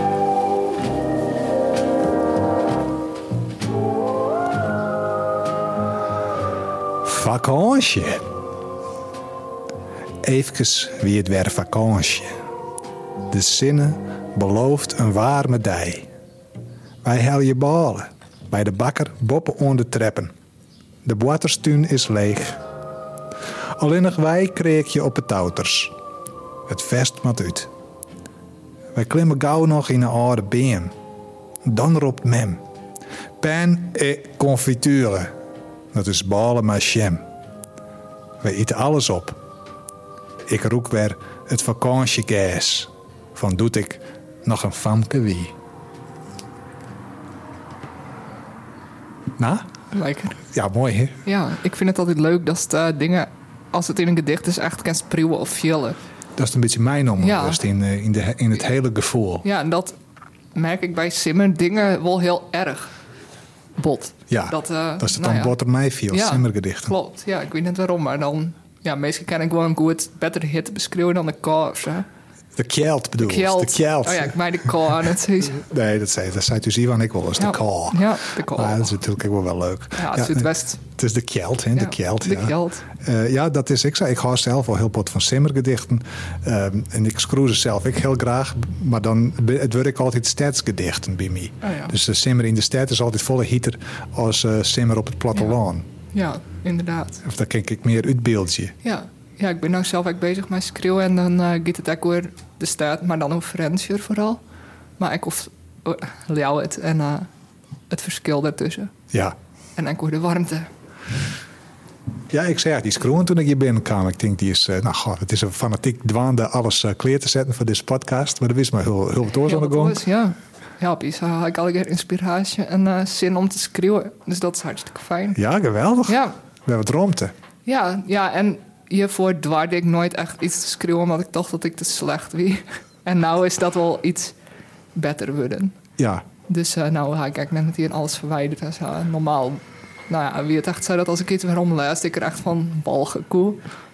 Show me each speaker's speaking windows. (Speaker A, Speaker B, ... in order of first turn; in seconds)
Speaker A: 7.0-8.3, 10.2-12.3, 13.3-16.1, 17.0-20.3, 21.1-22.6, 23.8-25.9, 26.7-27.7, 28.9-30.9, 31.6-32.6, 33.4-35.3, 35.9-37.2, 38.4-39.4, 40.5-45.5, 49.4-49.7, 50.4-51.2, 56.4-59.5, 64.3-67.0, 72.6-74.7, 75.6-95.9, 97.2-98.7, 112.3-120.0, 125.3-127.3, 136.0-136.2
Speaker B: 49.9-50.4, 51.2-56.0, 57.2-57.6, 59.4-60.0, 60.5-62.9, 63.8-65.6, 66.1-72.1, 73.2-75.6, 77.4-78.9, 80.0-80.8, 81.8-82.8, 91.6-91.9, 96.1-97.2, 98.8-104.4, 105.0-107.3, 107.9-108.9, 109.8-110.7, 119.5-125.4, 126.1-126.3, 127.7-134.3, 134.9-135.8, 136.5-143.6